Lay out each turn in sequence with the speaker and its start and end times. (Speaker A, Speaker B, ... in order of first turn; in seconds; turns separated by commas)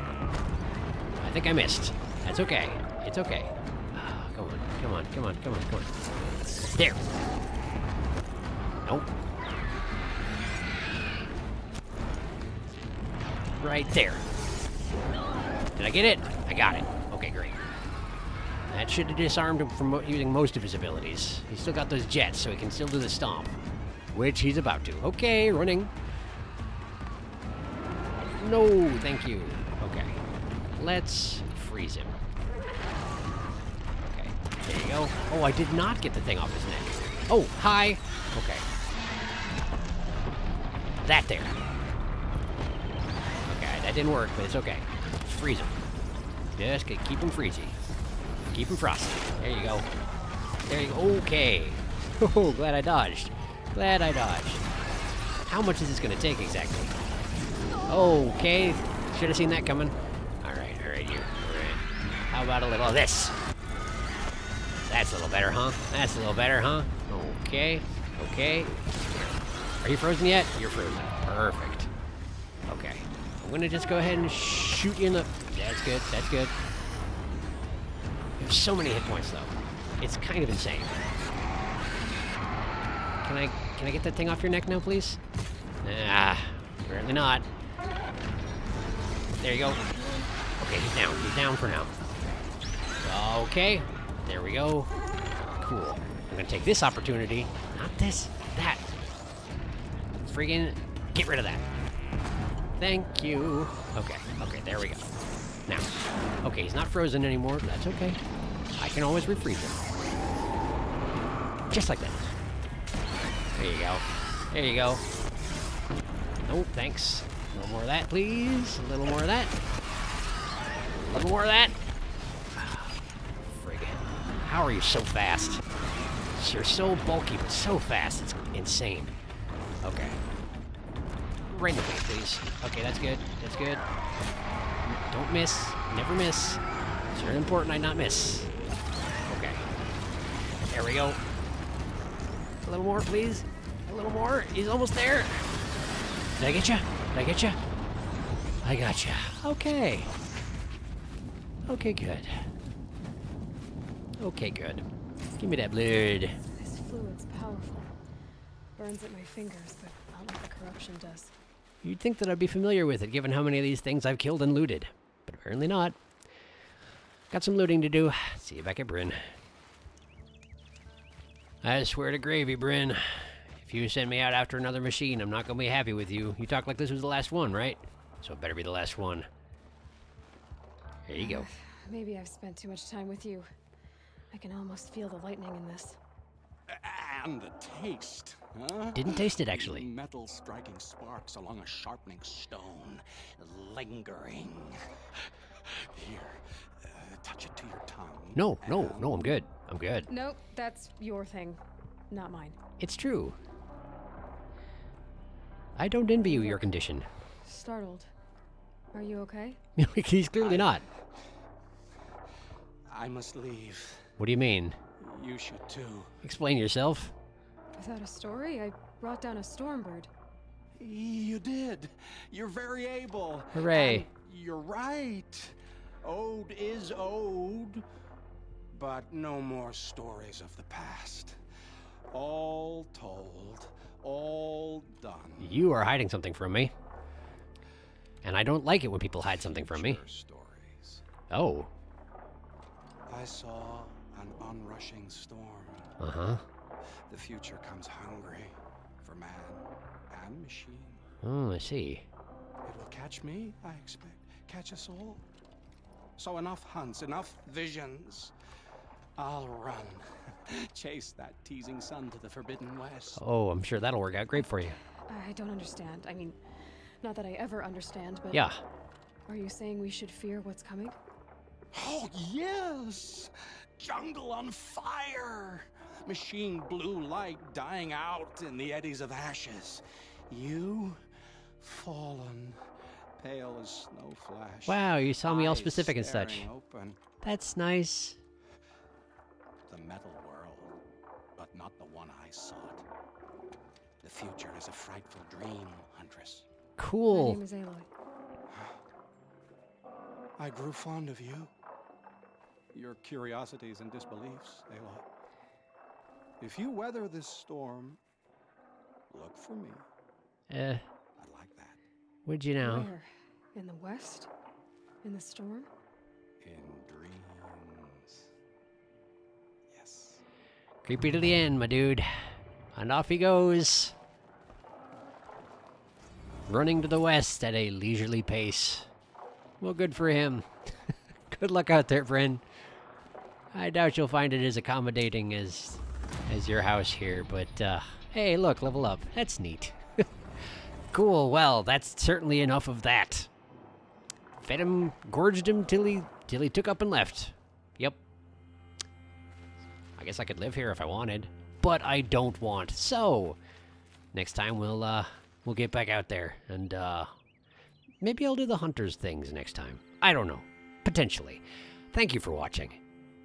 Speaker A: 1.2-6.0, Speaker A: 6.5-7.1, Speaker A: 8.8-9.1, Speaker A: 13.6-14.3, Speaker A: 15.8-17.6, Speaker A: 18.7-25.9, Speaker A: 28.4-30.2, Speaker A: 30.8-32.2, Speaker A: 34.0-38.6, Speaker A: 41.0-41.6, Speaker A: 43.5-45.8, Speaker A: 46.6-47.8, Speaker A: 48.5-49.9, Speaker A: 50.7-54.6, Speaker A: 55.5-57.0, Speaker A: 57.9-63.4, Speaker A: 64.8-71.9, Speaker A: 72.7-76.6, Speaker A: 78.4-81.1, Speaker A: 83.2-85.2, Speaker A: 85.8-87.5, Speaker A: 89.4-91.9, Speaker A: 93.0-94.9, Speaker A: 95.6-99.0, Speaker A: 100.2-101.7, Speaker A: 102.8-105.1, Speaker A: 105.7-105.9, Speaker A: 106.4-108.2, Speaker A: 108.8-109.9, Speaker A: 111.7-112.3, Speaker A: 113.5-115.0, Speaker A: 116.4-119.6, Speaker A: 120.8-121.8, Speaker A: 122.5-125.7, Speaker A: 126.3-129.1, Speaker A: 129.8-130.2, Speaker A: 131.5-133.9, Speaker A: 134.8-138.5, Speaker A: 139.3-139.6, Speaker A: 140.7-141.2, Speaker A: 142.6-145.5, Speaker A: 146.4-147.6, Speaker A: 148.6-150.1, Speaker A: 151.7-152.5, Speaker A: 154.2-154.8, Speaker A: 155.4-156.4, Speaker B: 156.6-157.9, Speaker B: 158.8-161.3, Speaker A: 161.8-166.0, Speaker A: 167.3-169.2, Speaker A: 171.6-179.3, Speaker A: 181.1-181.5, Speaker B: 181.1-183.5, Speaker B: 184.3-186.0, Speaker C: 186.7-194.9, Speaker A: 188.9-189.9, Speaker C: 195.6-199.3, Speaker A: 198.3-200.1, Speaker B: 200.1-202.6, Speaker A: 202.8-203.4, Speaker A: 205.8-207.1, Speaker B: 206.2-206.7, Speaker B: 207.4-208.1, Speaker B: 208.9-209.6, Speaker A: 209.8-210.8, Speaker C: 210.4-210.8, Speaker C: 212.9-214.1, Speaker A: 214.2-214.8, Speaker C: 215.0-216.2, Speaker A: 216.2-217.1, Speaker B: 217.8-220.1, Speaker C: 220.8-227.8, Speaker A: 223.5-224.1, Speaker C: 228.7-231.4, Speaker C: 232.1-235.6, Speaker A: 235.4-236.7, Speaker A: 238.2-240.0, Speaker C: 239.2-241.1, Speaker A: 241.3-241.7, Speaker C: 243.1-246.0, Speaker A: 246.0-246.4, Speaker C: 247.1-251.1, Speaker A: 251.2-252.1, Speaker C: 252.7-255.2, Speaker C: 256.2-258.3, Speaker C: 259.2-263.2, Speaker A: 263.2-264.8, Speaker B: 265.1-266.4, Speaker B: 267.0-268.5, Speaker A: 268.3-268.6, Speaker B: 269.3-271.0, Speaker C: 271.7-281.0, Speaker C: 281.6-282.6, Speaker C: 283.2-287.0, Speaker A: 284.7-286.5, Speaker A: 287.2-288.2, Speaker C: 289.7-290.7, Speaker C: 291.4-292.9, Speaker C: 294.0-296.5, Speaker A: 296.8-297.4, Speaker B: 297.1-297.9, Speaker C: 300.4-301.5, Speaker C: 302.7-305.1, Speaker C: 306.4-308.0, Speaker C: 309.1-309.9, Speaker A: 310.5-310.8, Speaker C: 311.2-311.8, Speaker A: 312.3-312.9, Speaker B: 312.6-314.3, Speaker B: 315.0-315.7, Speaker C: 316.4-318.2, Speaker C: 319.7-320.2, Speaker A: 320.8-322.1, Speaker A: 322.8-323.9, Speaker A: 326.5-328.9, Speaker A: 329.6-332.4, Speaker A: 333.5-340.1, Speaker A: 340.9-343.3, Speaker A: 344.4-348.0, Speaker A: 350.0-353.4, Speaker A: 354.1-357.1, Speaker A: 358.0-362.8